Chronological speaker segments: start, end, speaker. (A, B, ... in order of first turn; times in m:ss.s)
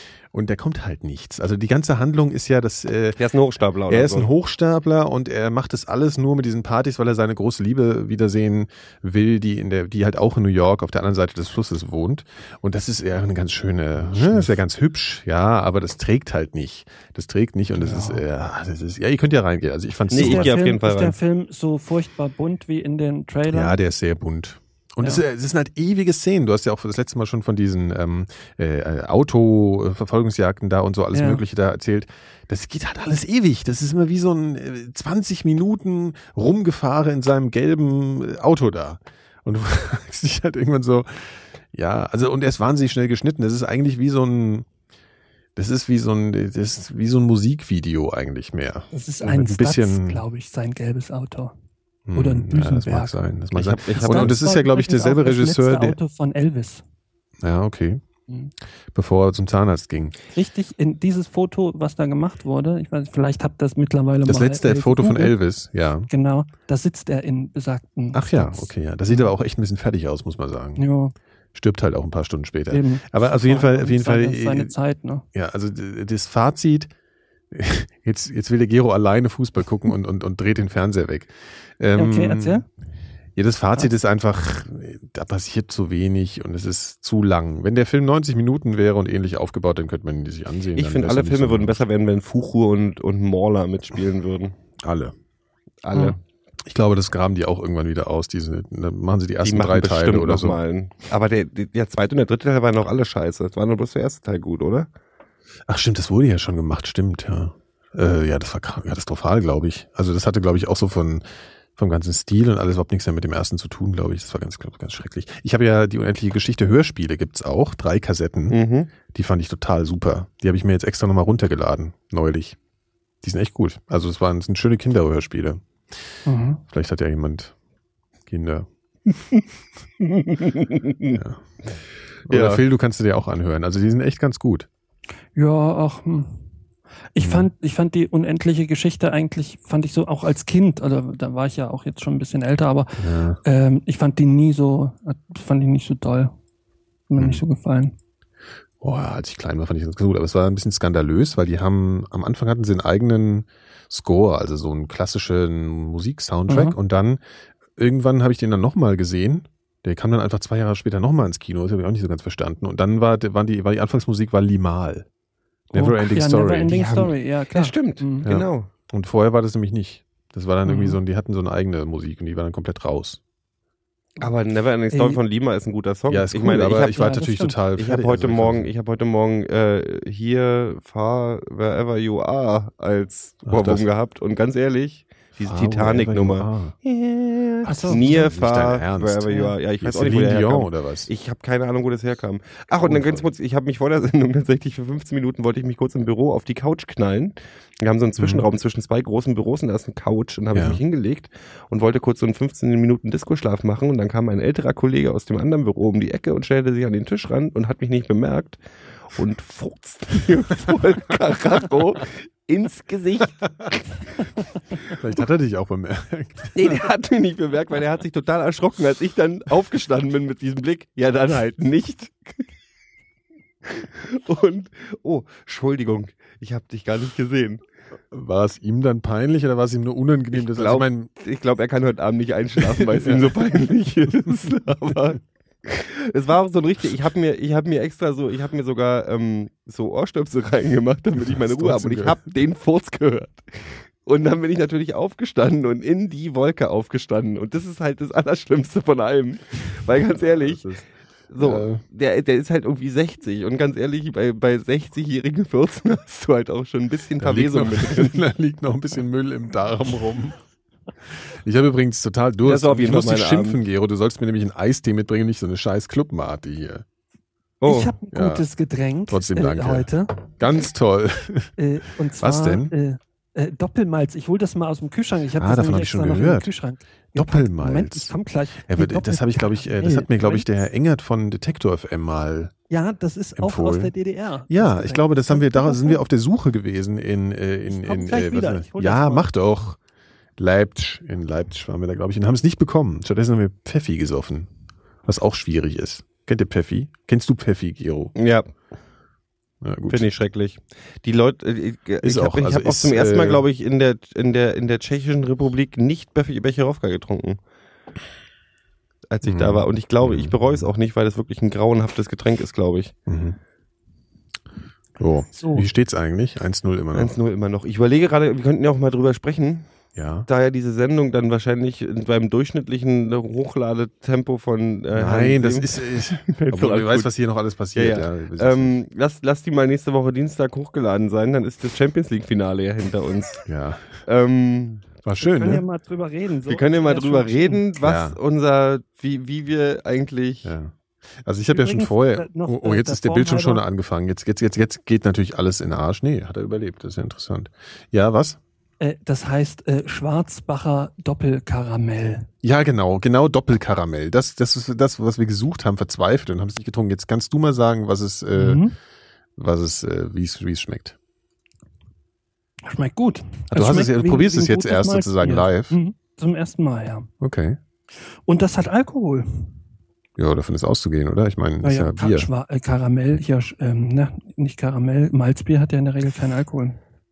0:00.3-0:03.2 A
0:03.2-0:04.3 B
0:03.9-0:20.5 A
0:17.8-0:18.2 C
0:20.1-0:21.2 B
0:20.1-0:23.7 C
0:23.5-0:44.7 A
0:31.1-0:31.4 C
0:45.6-0:50.2 A
0:48.9-0:51.5 C
0:52.1-0:56.0 A
0:52.2-0:53.2 C
0:53.6-0:54.4 B
0:54.0-0:56.8 C
0:57.4-0:58.0 A
0:58.9-1:00.2 A
1:00.3-1:05.4 C
1:04.3-1:06.1 A
1:06.1-1:09.3 C
1:08.1-1:10.8 A
1:10.8-1:11.1 C
1:11.5-1:14.7 A
1:12.7-1:15.2 C
1:15.3-1:16.9 A
1:17.5-1:22.6 A
1:22.0-1:22.6 C
1:23.4-1:31.8 A
1:30.8-1:34.6 B
1:34.8-1:35.1 A
1:35.8-1:36.2 B
1:36.7-1:40.6 A
1:39.4-1:44.9 B
1:45.7-1:51.2 A
1:51.8-1:58.6 A
1:58.5-1:58.9 B
1:59.1-2:02.6 A
2:03.2-2:05.6 A
2:06.3-2:06.6 C
2:06.7-2:07.5 A
2:08.3-2:08.7 A
2:10.0-2:11.2 B
2:11.1-2:11.4 A
2:12.3-2:14.7 A
2:12.3-2:12.6 B
2:15.4-2:16.4 C
2:17.1-2:26.3 C
2:17.2-2:17.5 A
2:23.0-2:23.4 A
2:27.1-2:28.0 C
2:27.2-2:27.4 A
2:28.8-2:37.2 A
2:36.5-2:36.8 C
2:37.8-2:45.1 A
2:45.7-2:46.8 A
2:45.7-2:48.3 C
2:46.7-2:48.7 B
2:48.2-2:53.2 A
2:50.6-2:51.0 C
2:54.2-2:57.2 B
2:54.9-2:55.2 C
2:56.1-2:58.7 A
2:56.9-2:57.6 C
2:57.8-3:28.6 B
3:03.5-3:03.8 A
3:05.4-3:06.7 A
3:07.6-3:08.3 C
3:07.9-3:11.1 A
3:12.8-3:13.3 A
3:18.2-3:18.5 A
3:20.5-3:20.8 A
3:29.1-3:33.4 B
3:34.8-3:36.8 A
3:36.6-3:42.4 B
3:43.6-3:47.6 B
3:48.1-3:51.1 A
3:50.3-4:10.6 B
3:52.6-3:53.4 A
4:01.2-4:02.2 A
4:10.3-4:10.8 A
4:11.3-4:18.2 B
4:11.4-4:11.8 A
4:17.2-4:20.4 A
4:21.1-4:26.8 A
4:22.4-4:23.6 B
4:27.6-4:28.0 B
4:27.7-4:30.2 C
4:28.1-4:28.4 A
4:29.1-4:31.5 A
4:31.6-4:40.5 C
4:32.2-4:32.7 A
4:35.4-4:36.5 A
4:37.1-4:42.5 A
4:42.7-4:46.0 C
4:43.4-4:43.9 A
4:44.5-4:49.8 A
4:47.7-4:49.3 C
4:50.4-4:54.5 A
4:55.1-4:58.1 A
4:58.2-4:58.5 B
4:59.6-5:00.1 A
4:59.9-5:07.4 B
5:02.0-5:03.4 A
5:09.1-5:12.9 B
5:09.2-5:10.6 A
5:13.1-5:13.4 A
5:15.0-5:17.2 A
5:15.4-5:15.6 C
5:16.9-5:19.7 B
5:20.0-5:20.3 A
5:20.3-5:27.1 B
5:24.9-5:28.8 A
5:27.8-5:33.5 B
5:33.5-5:34.0 A
5:34.0-5:34.9 B
5:35.0-5:35.6 A
5:35.2-5:37.7 C
5:36.5-5:40.6 B
5:37.8-5:38.2 A
5:40.4-5:48.4 A
5:41.5-5:43.6 C
5:48.8-5:52.3 C
5:52.4-5:58.7 A
5:58.4-5:58.7 C
5:59.4-6:01.0 A
6:02.6-6:07.1 C
6:03.5-6:05.8 A
6:07.2-6:07.6 A
6:08.3-6:09.5 C
6:10.2-6:12.3 A
6:11.6-6:16.8 C